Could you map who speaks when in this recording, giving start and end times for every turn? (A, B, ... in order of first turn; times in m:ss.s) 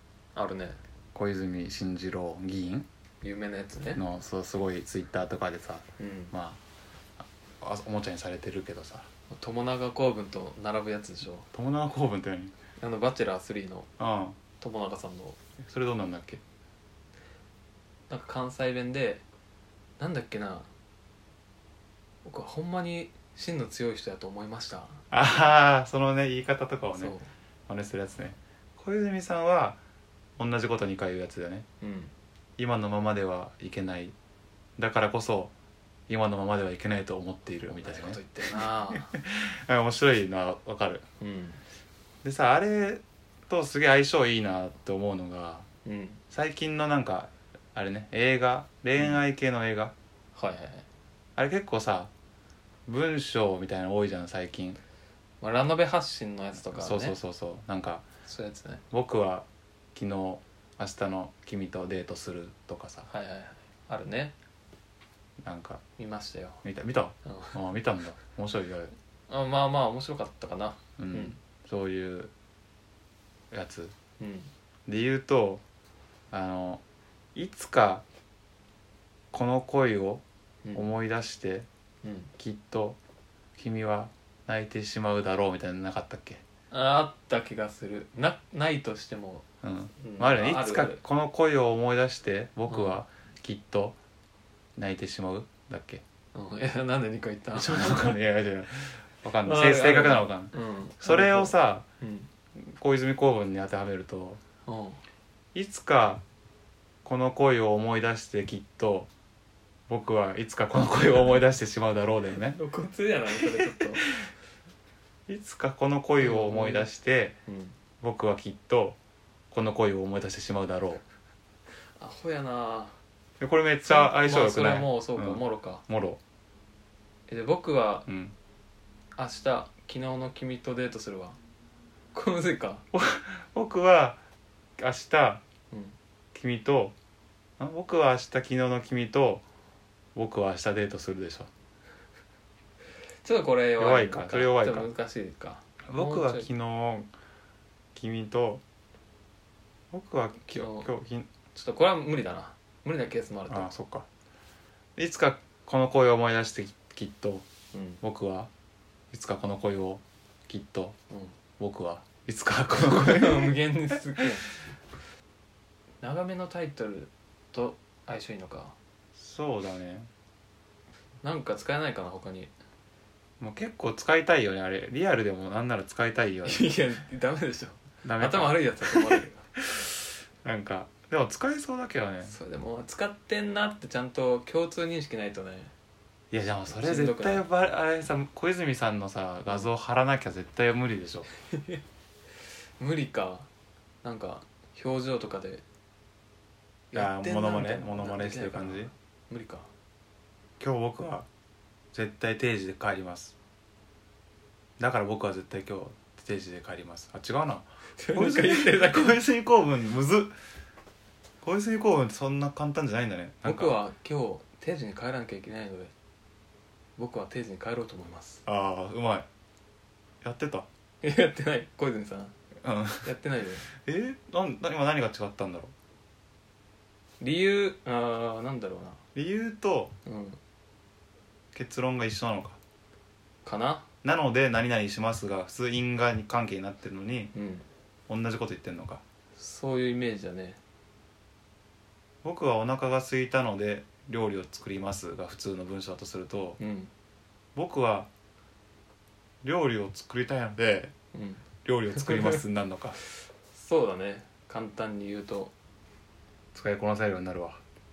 0:00.4-0:00.8 A
0:01.1-0:02.9 B
0:03.2-0:04.0 A
0:04.0-0:06.6 B
0:06.0-0:06.3 A
0:07.2-0:09.1 B
0:09.3-0:11.5 A
0:11.5-0:12.5 B
0:12.8-0:13.9 A
0:14.0-0:14.4 B
0:14.6-0:15.4 A
0:15.6-0:16.4 B
0:18.1-0:19.2 A
0:20.0-0:20.7 A
0:22.2-0:25.0 A
0:25.1-0:27.2 B
0:27.0-0:27.3 A
0:27.7-0:29.8 B
0:30.4-0:31.7 B
0:31.8-0:32.1 A
0:32.6-0:34.1 B
0:34.8-0:35.5 B
0:36.1-0:41.0 B
0:37.7-0:39.1 A
0:41.2-0:41.6 A
0:42.2-0:45.7 B
0:45.8-0:46.2 A
0:46.3-0:49.9 B
0:50.4-0:50.9 A
0:51.4-0:52.1 B
0:52.9-0:54.8 B
0:55.4-0:57.2 A
0:56.7-0:58.0 B
0:58.2-0:58.8 A
0:58.9-1:03.1 B
1:03.0-1:04.4 A
1:05.4-1:05.8 B
1:06.0-1:06.6 A
1:06.6-1:08.9 B
1:07.2-1:07.6 A
1:09.3-1:11.4 A
1:11.0-1:12.3 B
1:13.5-1:13.9 B
1:14.2-1:14.5 A
1:14.9-1:15.6 B
1:16.3-1:16.8 B
1:17.4-1:18.0 B
1:19.3-1:20.2 B
1:20.7-1:21.7 B
1:22.0-1:22.3 A
1:22.4-1:23.0 B
1:23.6-1:26.4 B
1:26.7-1:29.4 A
1:29.6-1:34.0 B
1:30.0-1:31.0 A
1:32.7-1:33.0 A
1:34.8-1:36.0 B
1:36.3-1:38.2 A
1:37.5-1:41.9 B
1:39.4-1:42.3 A
1:42.6-1:44.4 B
1:44.6-1:45.0 A
1:45.6-1:46.2 B
1:47.0-1:49.1 B
1:49.9-1:52.6 B
1:52.4-1:54.1 A
1:53.4-1:54.3 B
1:55.3-1:57.4 B
1:56.2-1:56.9 A
1:57.5-1:57.8 A
1:58.0-1:59.0 B
1:59.5-2:01.0 B
2:02.0-2:03.0 A
2:03.4-2:06.2 B
2:03.8-2:05.8 A
2:07.3-2:08.1 A
2:08.1-2:08.4 B
2:09.2-2:11.4 A
2:12.1-2:12.8 A
2:12.9-2:14.2 B
2:14.8-2:15.4 B
2:16.3-2:17.0 B
2:17.6-2:19.4 B
2:20.2-2:21.5 B
2:23.2-2:26.5 A
2:23.8-2:24.9 B
2:25.9-2:27.1 B
2:28.0-2:28.6 B
2:29.9-2:31.3 B
2:30.5-2:30.9 A
2:31.5-2:33.7 A
2:33.5-2:34.1 B
2:35.0-2:37.5 B
2:37.7-2:38.0 A
2:38.0-2:38.5 B
2:39.1-2:41.0 B
2:41.1-2:41.4 A
2:41.6-2:43.6 B
2:42.7-2:44.5 A
2:46.0-2:48.8 A
2:49.2-2:50.1 B
2:51.2-2:52.5 A
2:53.4-2:56.7 B
2:56.4-2:59.4 A
2:58.0-2:59.9 B
3:00.4-3:02.4 B
3:02.2-3:05.7 A
3:06.3-3:11.3 B
3:06.7-3:07.4 A
3:11.5-3:11.8 A
3:12.8-3:13.5 A
3:14.0-3:15.6 A
3:16.9-3:19.7 A
3:16.9-3:18.9 B
3:20.6-3:21.3 B
3:21.9-3:23.4 B
3:24.8-3:30.3 B
3:28.0-3:29.2 A
3:31.4-3:33.8 B
3:33.4-3:35.9 A
3:37.0-3:38.4 A
3:38.5-3:39.3 B
3:40.2-3:40.7 B
3:41.0-3:42.4 A
3:42.6-3:43.1 B
3:43.0-3:43.7 A
3:43.8-3:45.7 B
3:47.2-3:49.0 A
3:49.1-3:49.9 B
3:50.0-3:50.4 A
3:51.5-3:52.6 B
3:53.4-3:53.9 A
3:54.0-3:57.3 B
3:57.3-3:57.6 A
3:58.1-3:59.0 B
3:59.4-4:00.6 A
4:02.2-4:06.6 B
4:06.6-4:06.9 A
4:07.6-4:08.1 B
4:09.4-4:10.9 B
4:11.1-4:12.4 A
4:11.6-4:13.0 B
4:13.5-4:15.5 A
4:16.5-4:17.6 B